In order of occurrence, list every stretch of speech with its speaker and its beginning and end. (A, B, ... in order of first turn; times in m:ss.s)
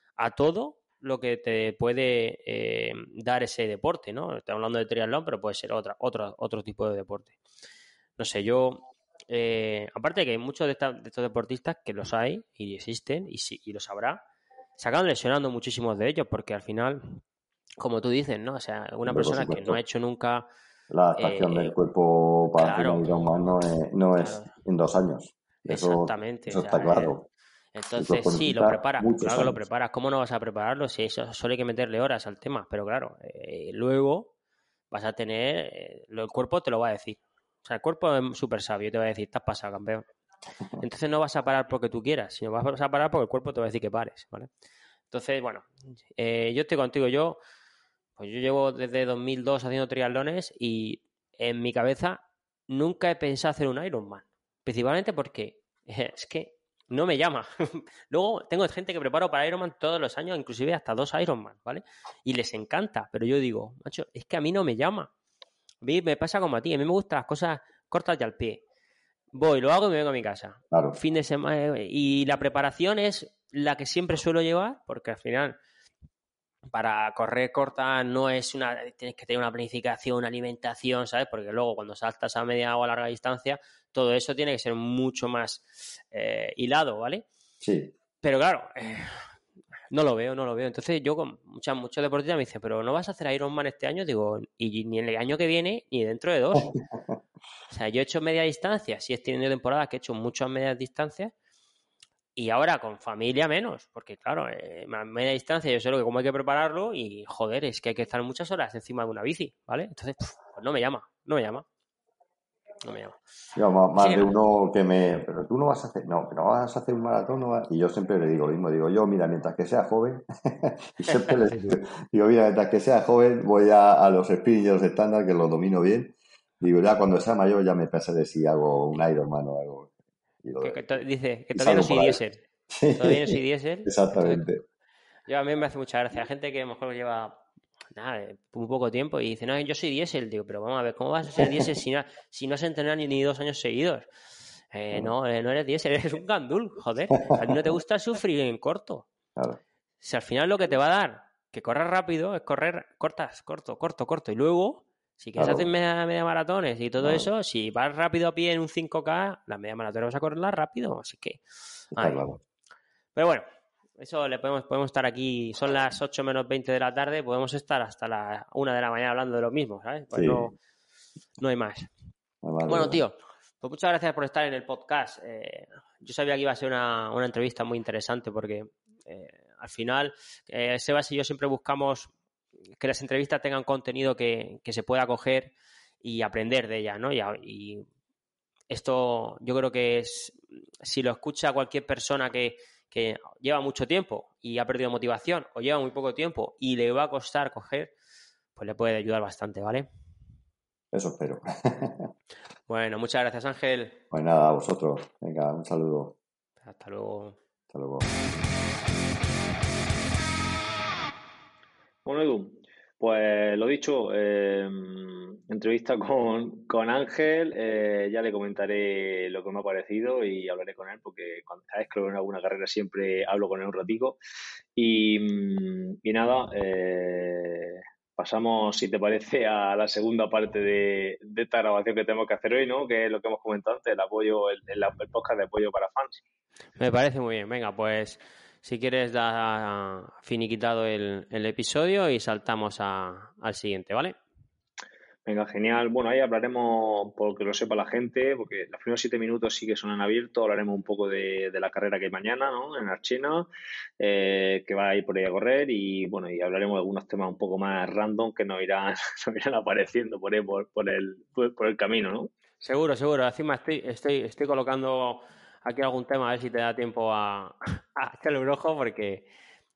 0:00.2-0:07.4 A
0:08.2-0:14.2 A
0:14.8-0:17.2 A
0:17.8-0:20.5 A
0:19.1-0:19.8 B
0:20.9-0:27.3 B
0:21.2-0:21.8 A
0:22.6-0:23.2 A
0:24.2-0:24.5 A
0:25.7-0:27.1 A
0:27.8-0:34.3 A
0:28.0-0:29.6 B
0:34.9-0:40.1 A
0:40.8-0:44.5 A
0:45.1-0:47.4 A
0:48.2-1:05.1 A
1:05.8-1:08.6 A
1:09.3-1:15.6 A
1:10.7-1:11.0 B
1:16.7-1:27.3 A
1:27.6-1:27.9 B
1:28.2-1:29.3 A
1:29.9-1:36.7 A
1:36.6-1:37.2 B
1:37.7-1:41.3 A
1:42.4-1:51.7 A
1:52.8-1:53.2 A
1:53.6-2:10.8 B
1:54.0-1:54.3 A
2:01.3-2:01.7 A
2:10.6-2:12.4 A
2:11.5-2:14.6 B
2:13.0-2:14.4 A
2:15.3-2:17.4 A
2:18.0-2:24.1 A
2:24.7-2:29.1 A
2:30.0-2:41.4 A
2:35.4-2:35.7 B
2:37.0-2:37.3 B
2:41.9-2:42.4 B
2:42.0-2:42.3 A
2:43.2-2:43.4 A
2:44.0-2:50.6 A
2:50.1-2:50.5 B
2:51.4-2:51.9 A
2:52.4-2:53.0 B
2:52.6-3:02.1 A
3:02.8-3:07.9 A
3:08.7-3:17.9 A
3:18.6-3:19.9 A
3:20.9-3:22.1 B
3:22.7-3:24.0 A
3:24.1-3:26.2 B
3:26.6-3:27.4 A
3:27.7-3:28.1 B
3:32.0-3:44.2 C
3:44.8-3:56.2 C
3:56.8-4:04.2 A
4:05.3-4:13.5 C
4:14.0-4:22.3 C
4:22.6-4:29.3 A